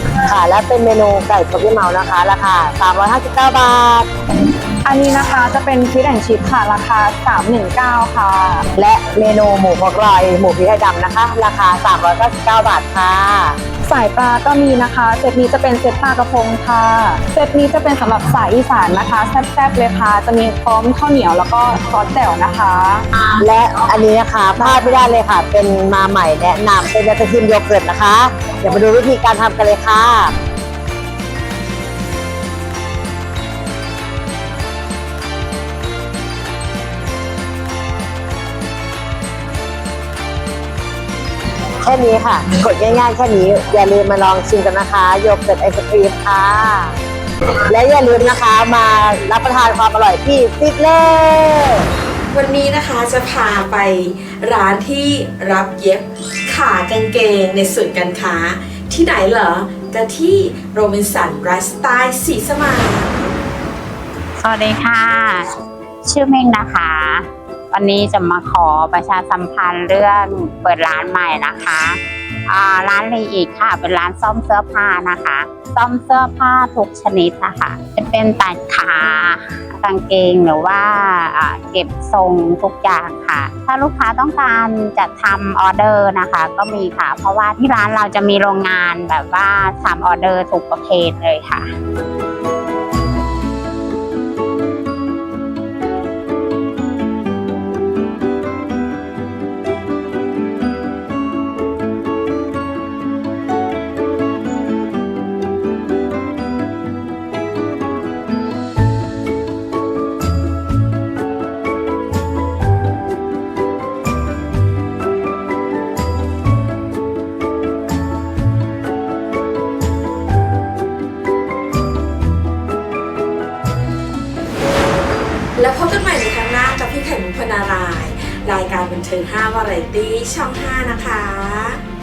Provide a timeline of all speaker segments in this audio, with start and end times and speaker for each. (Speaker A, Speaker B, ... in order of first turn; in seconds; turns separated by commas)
Speaker A: 0.2-4.1, Speaker B: 4.8-8.6, Speaker A: 8.8-13.6, Speaker B: 13.8-23.0, Speaker A: 23.3-30.3, Speaker B: 24.6-25.1, Speaker A: 41.8-46.9, Speaker A: 47.7-51.8, Speaker C: 52.3-63.1, Speaker D: 64.4-65.5, Speaker D: 66.0-91.7, Speaker C: 125.5-131.8